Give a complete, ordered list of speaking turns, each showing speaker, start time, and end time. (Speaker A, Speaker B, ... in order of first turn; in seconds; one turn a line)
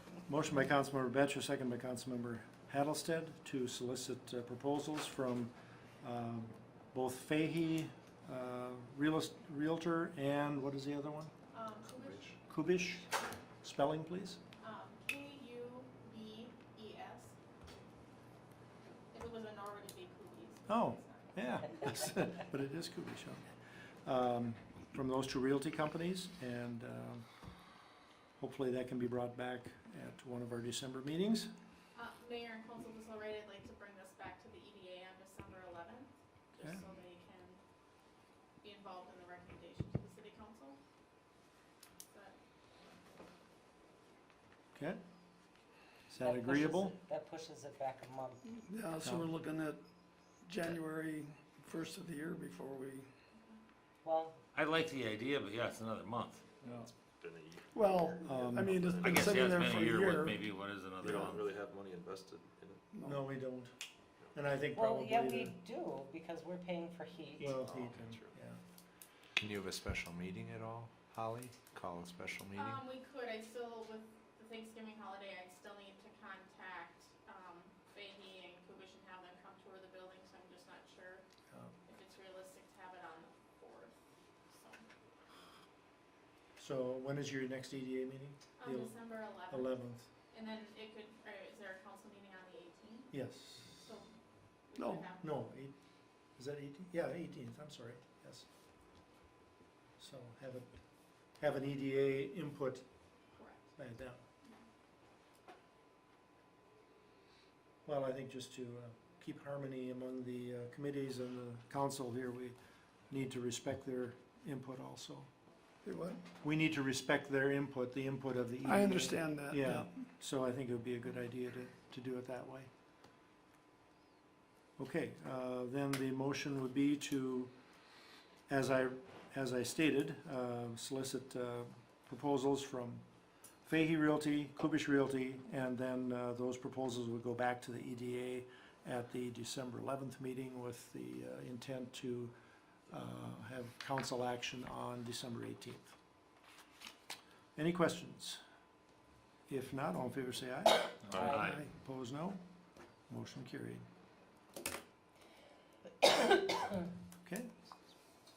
Speaker A: 0.3-11.3
Speaker B: 11.5-12.3
Speaker A: 12.5-13.1
Speaker A: 13.6-14.4
Speaker B: 14.6-17.4
Speaker B: 19.1-21.4
Speaker A: 20.7-23.5
Speaker A: 24.1-27.2
Speaker A: 28.4-31.5
Speaker B: 31.9-37.6
Speaker B: 38.6-40.8
Speaker B: 42.1-42.4
Speaker A: 44.8-45.0
Speaker A: 46.1-47.0
Speaker C: 46.2-48.4
Speaker D: 48.5-49.8
Speaker A: 49.0-49.3
Speaker D: 50.5-53.1
Speaker C: 54.0-54.4
Speaker E: 54.5-56.4
Speaker F: 56.7-59.8
Speaker D: 57.7-60.4
Speaker A: 58.2-58.8
Speaker E: 59.0-61.5
Speaker F: 61.0-62.8
Speaker D: 62.9-63.3
Speaker A: 63.0-63.7
Speaker A: 64.3-65.5
Speaker C: 64.8-67.6
Speaker A: 67.4-68.6
Speaker F: 67.6-68.3
Speaker G: 69.4-72.8
Speaker B: 72.6-81.2
Speaker B: 81.9-84.0
Speaker B: 84.5-84.8
Speaker A: 86.6-90.1
Speaker B: 88.6-93.2
Speaker A: 93.1-93.8
Speaker B: 93.8-94.1
Speaker B: 94.7-95.4
Speaker D: 94.8-95.1
Speaker A: 95.2-95.7
Speaker A: 96.4-98.5
Speaker A: 100.0-100.7
Speaker A: 101.4-102.9
Speaker B: 103.4-103.7
Speaker A: 103.8-104.2
Speaker A: 107.8-112.6
Speaker A: 113.1-115.3
Speaker D: 115.8-116.2
Speaker A: 116.4-122.7
Speaker D: 118.7-119.9
Speaker A: 124.8-127.5
Speaker A: 128.5-133.0
Speaker A: 133.7-142.3
Speaker A: 142.9-145.9
Speaker A: 147.6-148.4
Speaker A: 149.5-152.4
Speaker F: 151.1-151.4
Speaker E: 151.2-151.6
Speaker D: 151.4-151.7
Speaker A: 153.1-153.9
Speaker A: 157.2-157.5